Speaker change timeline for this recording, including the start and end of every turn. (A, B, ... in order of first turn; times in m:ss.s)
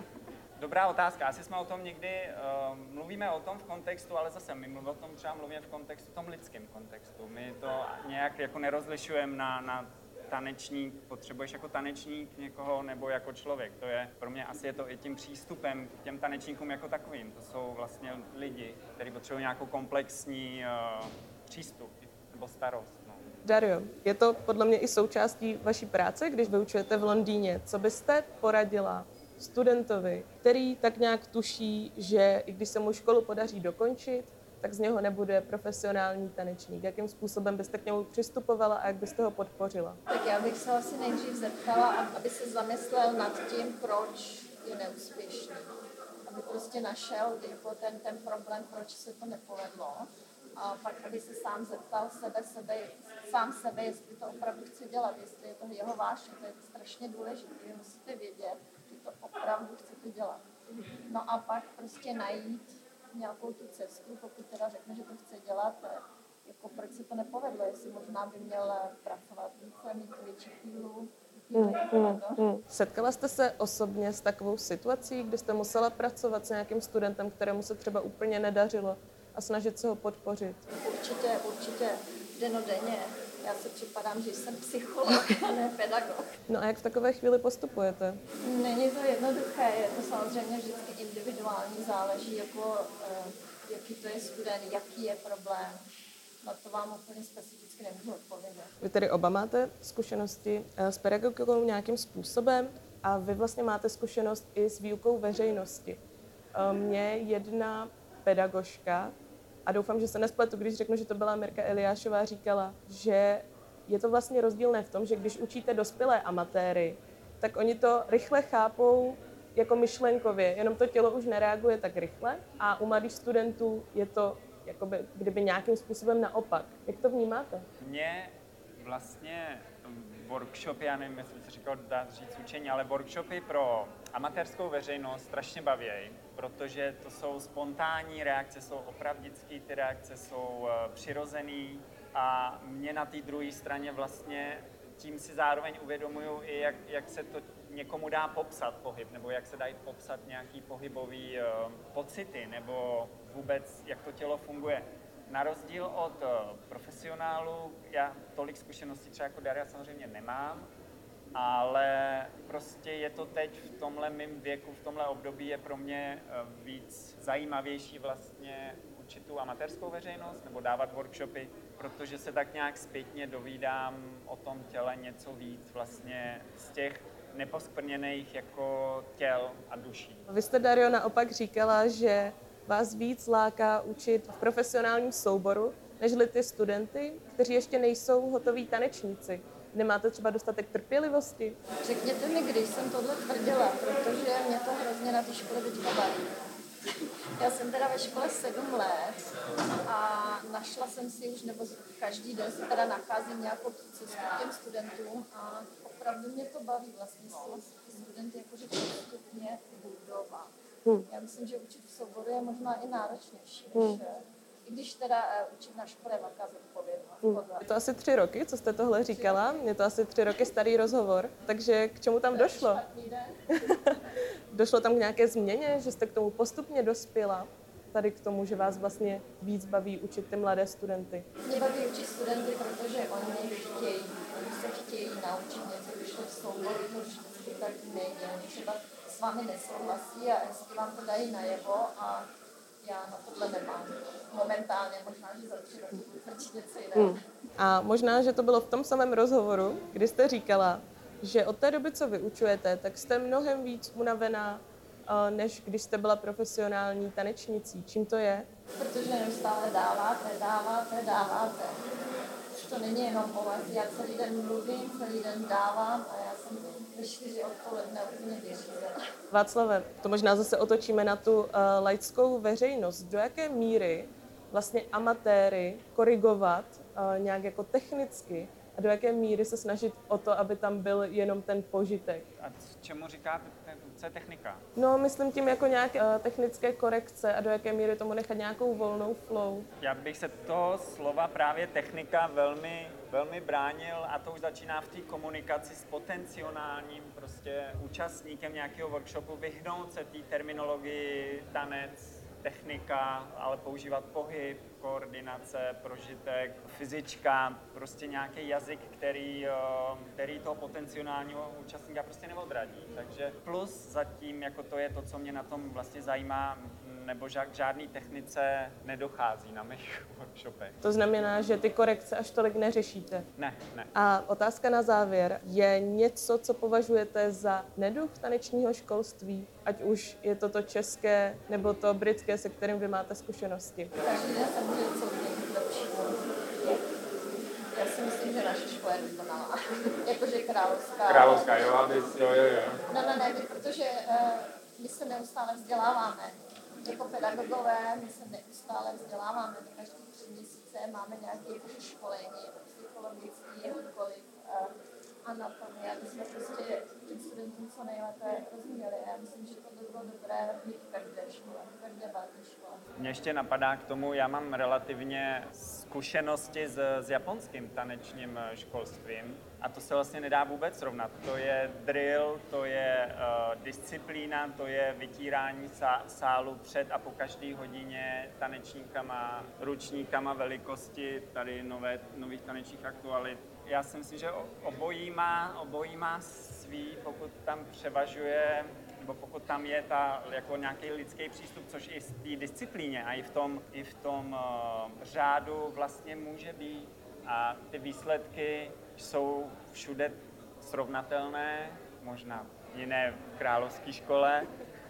0:00.6-0:23.2 A
0:23.4-0:40.0 B
0:40.1-0:45.7 C
0:46.2-1:00.4 C
1:01.0-1:12.5 C
1:11.5-1:20.6 B
1:20.7-1:26.3 C
1:26.5-1:28.2 B
1:28.4-1:35.8 C
1:36.4-1:38.7 C
1:38.8-1:46.0 B
1:46.5-1:49.1 B
1:49.6-2:07.7 B
2:07.8-2:40.7 A
2:41.3-3:00.2 A
3:00.3-3:11.6 B
3:11.8-3:16.4 C
3:17.4-3:19.3 C
3:19.8-3:30.5 C
3:31.0-3:37.6 C
3:37.2-3:42.8 B
3:39.1-3:39.4 C
3:42.3-3:43.4 C
3:43.6-3:51.3 B
3:51.4-4:02.3 C
4:02.8-4:07.2 C
4:07.0-4:18.4 B
4:18.8-4:21.8 C
4:22.5-4:29.0 C
4:29.3-4:42.3 B
4:42.4-4:44.6 A
4:44.8-4:49.7 B
4:49.8-5:20.8 A
5:20.8-5:23.3 B
5:23.4-5:23.9 A
5:23.9-5:33.9 B
5:34.0-5:36.9 C
5:37.7-5:41.5 C
5:41.0-5:42.8 A
5:42.9-5:54.7 C
5:55.2-6:02.8 C
6:03.0-6:44.5 A